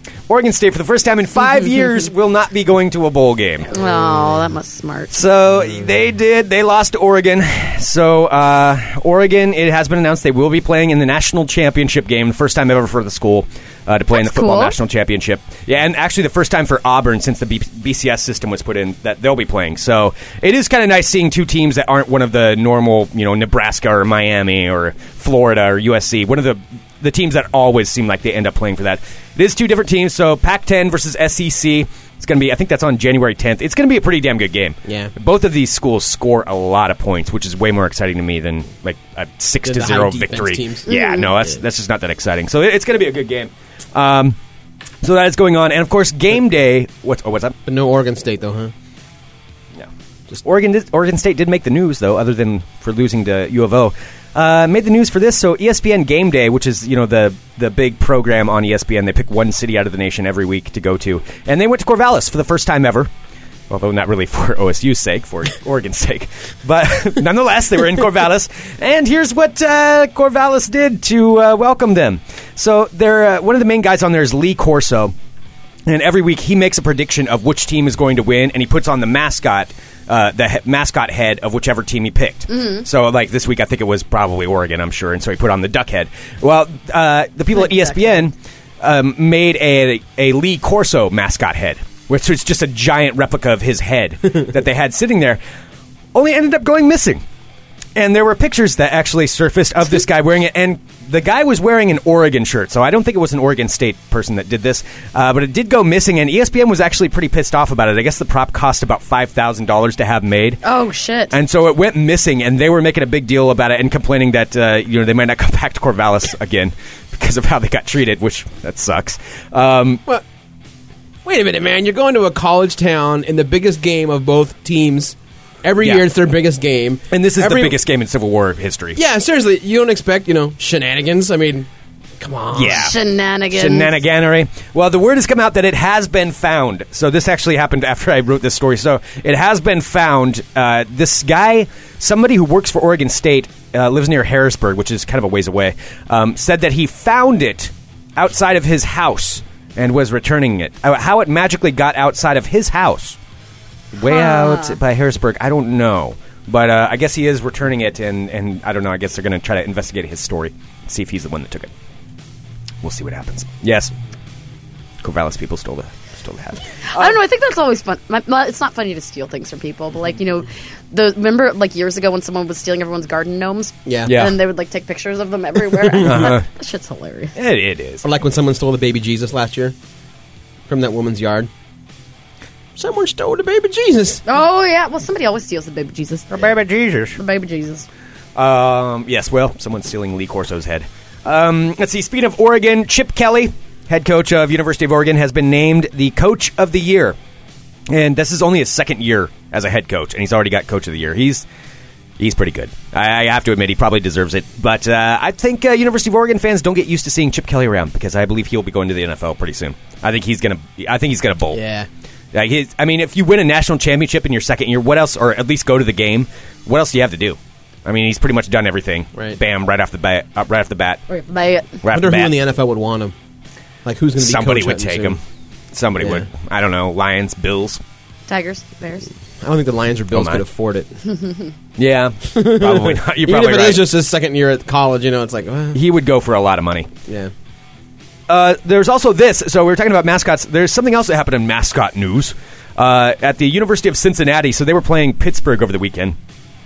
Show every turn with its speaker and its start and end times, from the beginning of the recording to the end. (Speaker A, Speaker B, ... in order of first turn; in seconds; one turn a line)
Speaker A: 0.3-3.7
Speaker B: 3.7-5.2
Speaker A: 5.1-44.4
Speaker B: 14.1-14.8
Speaker C: 34.9-35.1
Speaker C: 39.6-40.9
Speaker B: 40.9-41.3
Speaker A: 45.0-47.5
Speaker C: 47.6-48.7
Speaker A: 50.4-63.1
Speaker A: 63.7-75.1
Speaker A: 75.8-95.4
Speaker B: 82.5-82.8
Speaker B: 87.6-88.2
Speaker A: 96.1-97.2
Speaker A: 97.9-110.6
Speaker B: 110.6-111.3
Speaker A: 111.3-120.0
Speaker C: 121.2-127.8
Speaker A: 125.8-126.1
Speaker A: 127.1-129.0
Speaker C: 128.9-131.7
Speaker C: 132.2-132.9
Speaker A: 132.5-132.9
Speaker B: 132.7-134.0
Speaker A: 133.5-153.2
Speaker A: 153.9-161.7
Speaker B: 154.0-154.8
Speaker A: 162.8-163.9
Speaker A: 165.0-167.2
Speaker B: 166.9-177.3
Speaker C: 173.8-174.2
Speaker A: 174.1-174.4
Speaker A: 176.0-176.4
Speaker A: 177.3-178.0
Speaker C: 178.0-179.7
Speaker C: 180.7-181.5
Speaker C: 182.8-184.2
Speaker B: 184.2-186.5
Speaker A: 186.3-187.2
Speaker B: 187.2-187.9
Speaker A: 188.3-197.2
Speaker A: 197.9-201.4
Speaker A: 202.2-211.6
Speaker C: 211.5-211.9
Speaker A: 212.3-221.0
Speaker B: 221.1-221.8
Speaker A: 221.8-222.3
Speaker C: 221.9-223.1
Speaker C: 223.8-225.2
Speaker A: 224.2-225.2
Speaker A: 225.7-227.8
Speaker C: 226.0-226.2
Speaker B: 228.3-229.1
Speaker C: 229.4-230.9
Speaker A: 230.1-230.4
Speaker B: 231.1-231.5
Speaker A: 231.8-233.9
Speaker C: 232.3-235.8
Speaker A: 235.7-236.9
Speaker C: 237.1-237.3
Speaker A: 238.3-246.2